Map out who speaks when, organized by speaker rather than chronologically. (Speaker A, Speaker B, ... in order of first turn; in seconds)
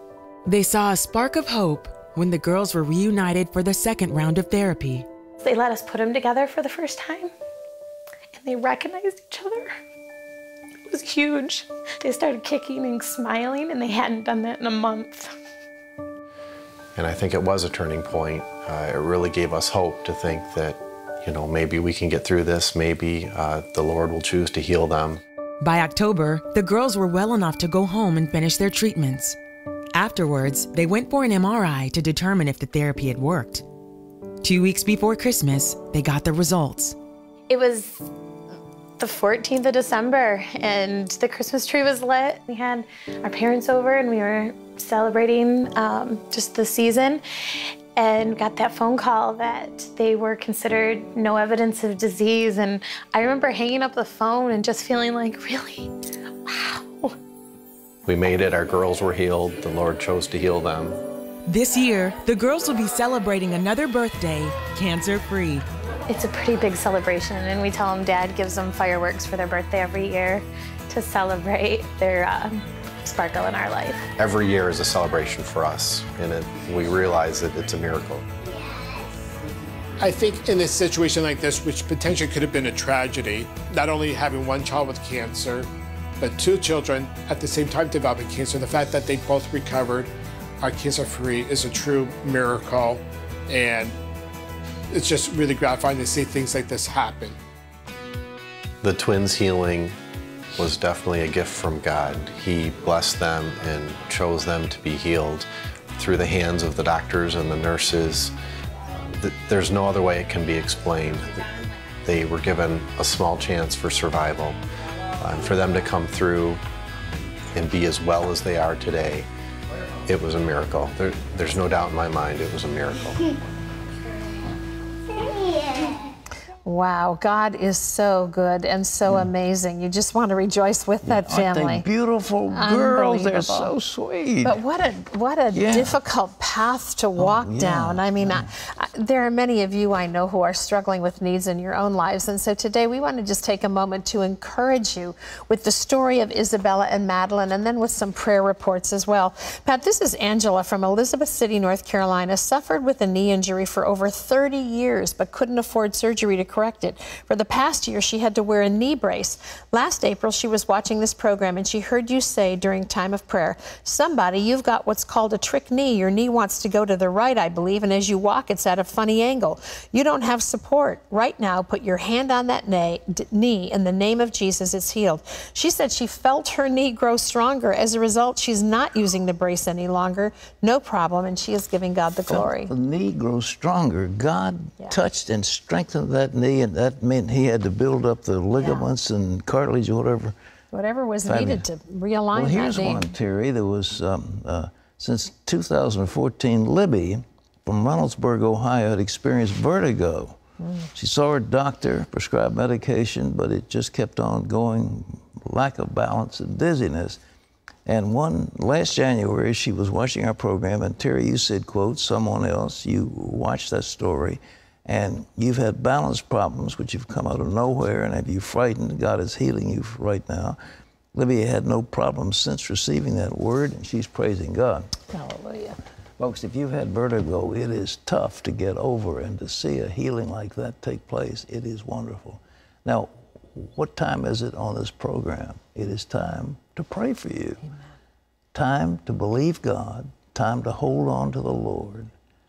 Speaker A: 0.5-5.1, 25.6-29.4, 29.9-33.6, 34.4-37.0, 61.5-65.7
Speaker B: 5.4-7.3, 8.3-9.7, 10.9-15.3, 37.5-38.1, 39.0-47.2, 48.0-55.9, 56.5-57.1, 66.1-74.0
Speaker C: 17.0-25.2, 58.0-61.0, 74.2-78.2, 98.8-100.0, 100.5-108.3, 109.0-111.5, 112.0-114.6, 115.2-116.6, 117.5-119.3, 120.1-123.2
Speaker D: 80.0-85.7, 86.2-94.0, 94.9-97.4
Speaker E: 126.7-131.8, 132.6-133.7, 134.4-182.7, 190.7-193.1, 200.6-200.9, 225.1-225.8
Speaker F: 131.0-134.6, 135.5-136.0, 137.2-138.5, 182.3-190.3, 191.3-191.7, 192.3-200.4, 200.9-207.2, 207.9-220.6, 221.1-224.9, 226.2-237.6, 238.5-242.1